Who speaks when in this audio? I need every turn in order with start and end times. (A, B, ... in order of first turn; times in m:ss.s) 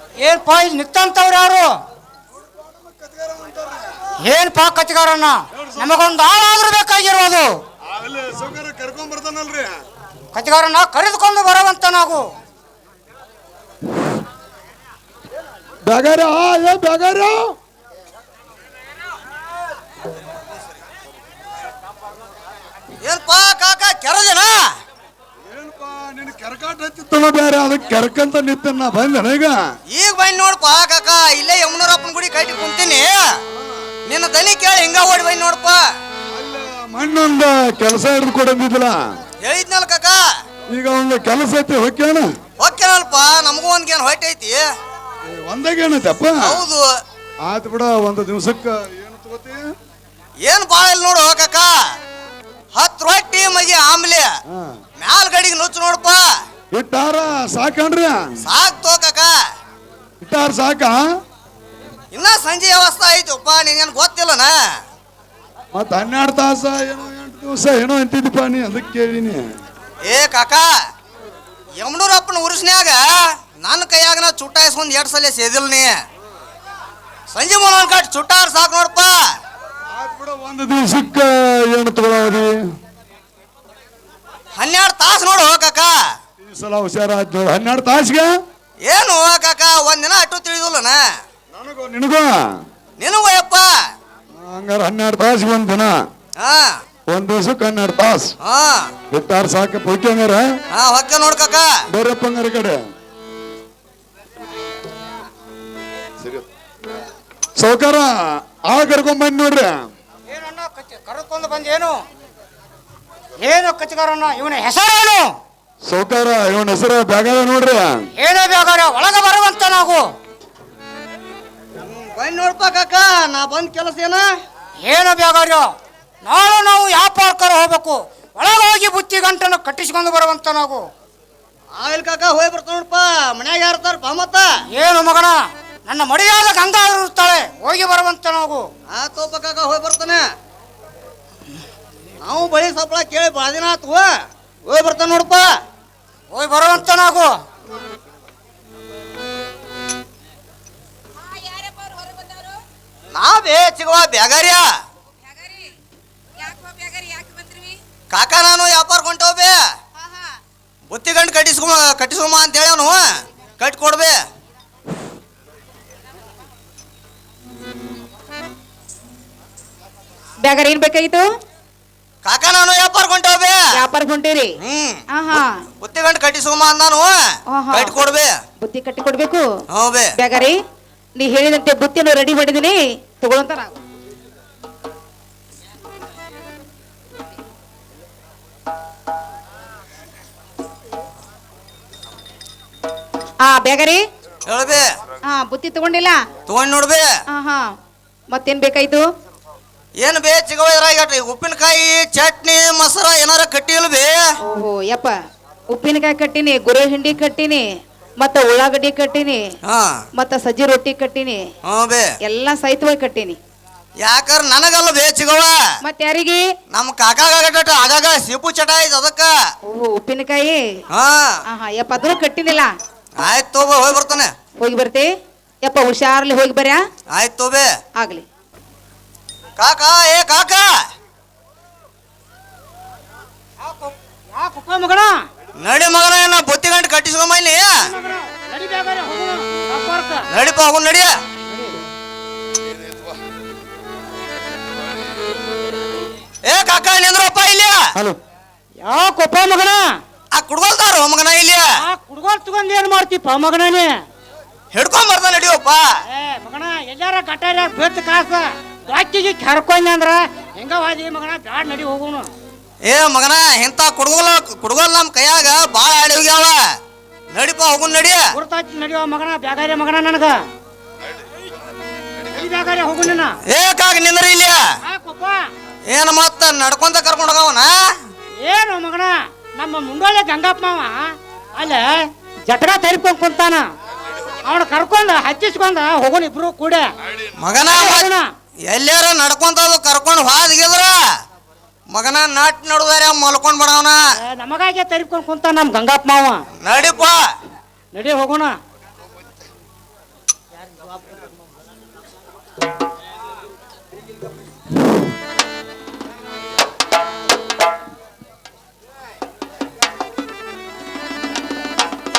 0:00.2-0:01.7 A
0:02.6-0:04.0 B
0:04.2-0:07.5 A
0:05.5-0:06.0 B
0:07.8-0:09.8 B
0:10.3-0:12.2 A
0:15.8-0:17.5 B
0:23.0-0:24.6 C
0:25.5-0:29.7 B
0:29.9-0:33.2 C
0:34.0-0:35.8 C
0:36.3-0:39.2 B
0:39.4-0:40.2 C
0:40.7-0:42.3 B
0:42.6-0:44.6 C
0:45.2-0:46.6 B
0:46.4-0:46.8 C
0:47.4-0:49.7 B
0:50.4-0:51.7 C
0:52.7-0:54.3 C
0:54.5-0:54.8 B
0:55.0-0:56.2 C
0:56.7-0:58.4 B
0:58.4-0:59.3 C
1:00.2-1:01.0 B
1:02.1-1:04.5 C
1:05.7-1:09.6 B
1:10.0-1:10.7 C
1:11.8-1:16.0 C
1:17.3-1:19.2 C
1:19.9-1:22.7 B
1:24.5-1:25.9 C
1:26.4-1:28.4 B
1:28.8-1:31.0 C
1:31.5-1:32.6 B
1:33.0-1:33.7 C
1:34.3-1:36.1 B
1:36.4-1:36.7 C
1:37.1-1:38.3 B
1:38.4-1:38.9 C
1:39.1-1:40.6 B
1:40.7-1:41.7 C
1:41.9-1:42.9 B
1:47.6-1:49.9 B
1:50.3-1:52.0 A
1:53.4-1:55.3 A
1:55.8-1:58.1 B
1:58.2-2:00.0 A
2:01.8-2:04.2 C
2:04.8-2:05.7 A
2:06.2-2:10.8 A
2:11.7-2:14.5 C
2:14.7-2:18.7 A
2:18.9-2:20.2 C
2:22.2-2:24.1 C
2:24.6-2:25.5 C
2:26.3-2:27.3 A
2:31.3-2:32.5 D
2:33.1-2:34.7 C
2:35.3-2:35.7 D
2:36.4-2:37.8 D
2:38.1-2:39.6 C
2:40.9-2:43.0 C
2:43.6-2:44.2 C
2:50.4-2:51.2 D
2:52.2-2:53.6 C
2:53.7-2:54.5 D
2:54.6-2:57.1 C
2:55.1-2:55.5 D
2:57.5-2:57.9 D
2:57.7-2:58.3 C
2:58.6-2:59.4 D
2:59.7-3:00.1 C
3:00.2-3:00.6 D
3:01.2-3:03.8 D
3:13.4-3:14.0 D
3:14.5-3:14.9 C
3:15.3-3:16.2 D
3:16.5-3:17.0 C
3:17.3-3:17.7 D
3:18.3-3:19.0 D
3:20.0-3:24.2 C
3:24.4-3:25.1 D
3:25.7-3:27.6 D
3:28.2-3:29.4 D
3:30.2-3:31.4 D
3:31.7-3:32.1 C
3:32.2-3:33.4 D
3:34.0-3:35.6 C
3:35.8-3:36.4 D
3:36.7-3:39.3 C
3:39.6-3:40.6 D
3:40.9-3:41.4 C
3:41.5-3:42.7 D
3:43.2-3:44.3 C
3:44.6-3:45.1 D
3:45.6-3:46.8 D
3:47.1-3:47.7 C
3:48.0-3:48.2 D
3:49.6-3:50.7 C
3:54.4-3:55.1 A
3:55.6-3:57.8 C
3:57.9-4:00.2 A
4:00.3-4:01.1 C
4:06.4-4:07.9 C
4:08.8-4:09.8 A
4:10.3-4:11.6 C
4:11.9-4:13.9 A
4:14.7-4:15.8 C
4:16.1-4:22.3 A
4:22.8-4:26.6 C
4:27.3-4:28.2 C
4:28.4-4:30.3 A
4:32.3-4:33.3 A
4:33.5-4:34.6 C
4:34.9-4:35.4 A
4:35.9-4:37.9 C
4:38.4-4:41.9 A
4:42.5-4:43.6 A
4:44.4-4:46.8 A
4:47.4-4:48.1 C
4:47.7-4:48.2 A
4:48.7-4:51.0 C
4:51.9-4:54.0 C
4:54.2-4:56.4 A
4:56.6-4:57.2 C
4:57.9-4:58.5 A